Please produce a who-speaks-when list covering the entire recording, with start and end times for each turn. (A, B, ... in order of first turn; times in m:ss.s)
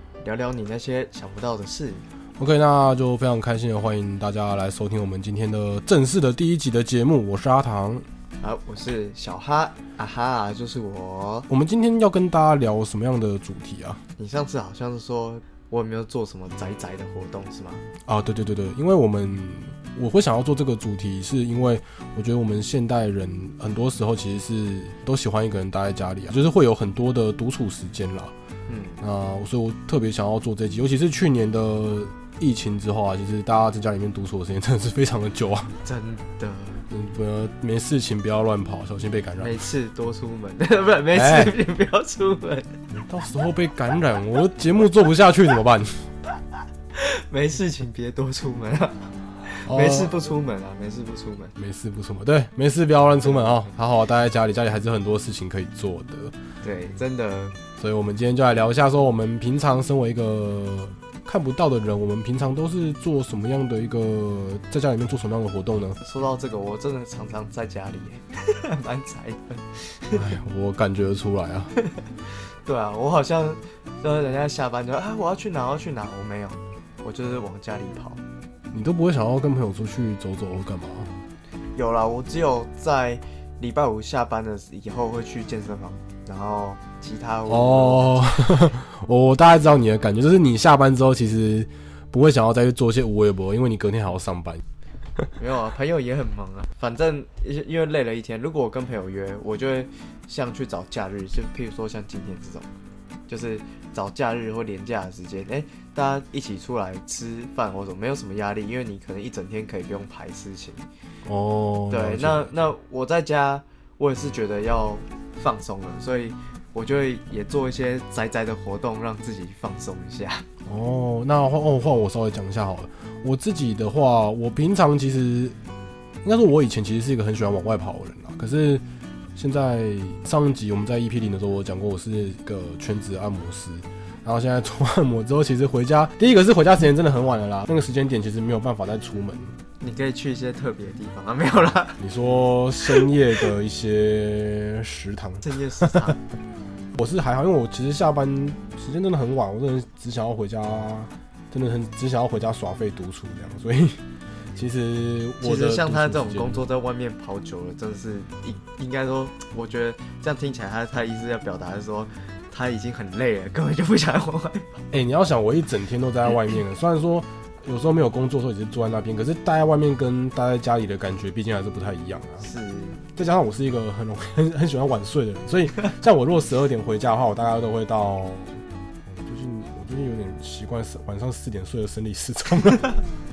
0:00.2-0:02.0 A
0:02.4-0:08.1 B
0:08.4-0:11.5 A
0:11.5-0:14.0 B
0:14.2-0:17.8 A
0:18.0-0:28.3 B
0:28.7-0:29.0 A
0:29.0-0:35.7 B
0:35.8-0:36.9 A
0:36.9-0:39.6 B
0:39.4-0:42.8 A
0:41.1-0:41.6 B
0:42.9-0:46.1 B
0:47.0-0:51.6 A
0:49.7-0:50.2 B
0:51.6-0:56.4 B
0:53.2-0:53.7 A
0:56.6-0:57.6 A
0:57.8-1:06.0 B
1:06.0-1:10.3 A
1:10.1-1:11.7 B
1:12.6-1:18.2 A
1:18.7-1:21.1 B
1:21.8-1:28.6 A
1:27.5-1:34.6 B
1:35.4-1:42.7 A
1:43.3-1:50.9 A
1:51.2-1:52.5 B
1:51.9-2:00.5 A
2:00.6-2:05.6 B
2:06.2-2:08.8 B
2:09.4-2:19.6 B
2:19.8-2:22.0 A
2:22.0-2:26.1 B
2:25.4-2:26.2 A
2:26.9-2:36.6 B
2:35.4-2:44.8 A
2:44.9-2:52.5 B
2:52.4-2:53.0 A
2:53.2-3:02.9 B